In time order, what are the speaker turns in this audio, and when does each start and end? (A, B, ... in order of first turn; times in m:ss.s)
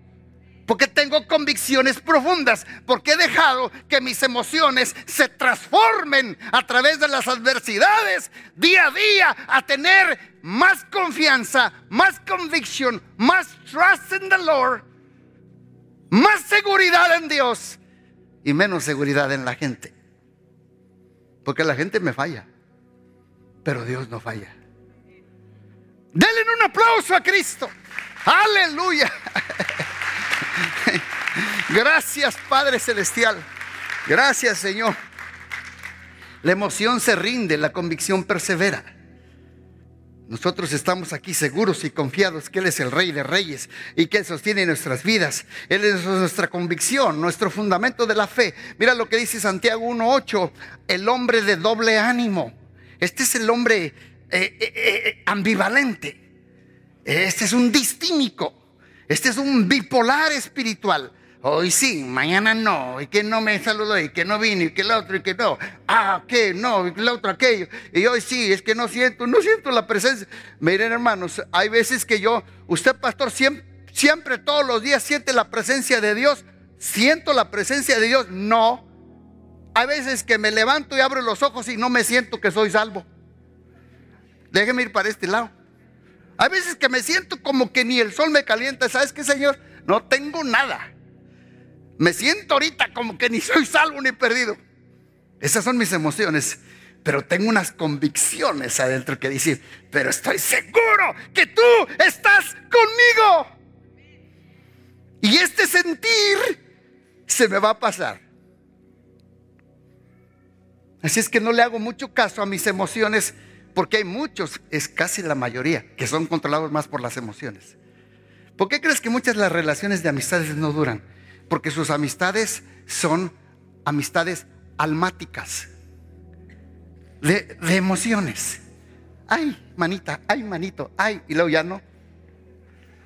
0:00.7-0:14.8 A
0:16.1-0:17.8 A
0:18.4-0:19.9 A
0:21.4-0:22.5 A
0:23.6-0:24.6 A
0:26.1-0:27.7 A
0:28.2-0:29.8 A
0:30.6-0:33.4 A
0:34.1-0:34.9 A
0:36.4-0:38.9 A
0:40.3-0:56.2 A
0:57.0-0:58.5 A
0:59.1-1:18.8 A
1:19.7-1:23.1 A
1:24.5-1:25.5 A
1:26.4-1:30.9 A
1:32.0-1:34.6 A
1:35.4-1:43.5 A
1:45.2-1:46.6 A
1:47.3-1:48.2 A
1:51.0-1:57.8 A
1:58.6-2:03.3 A
2:03.8-2:05.7 A
2:07.2-2:08.6 A
2:09.3-2:11.8 A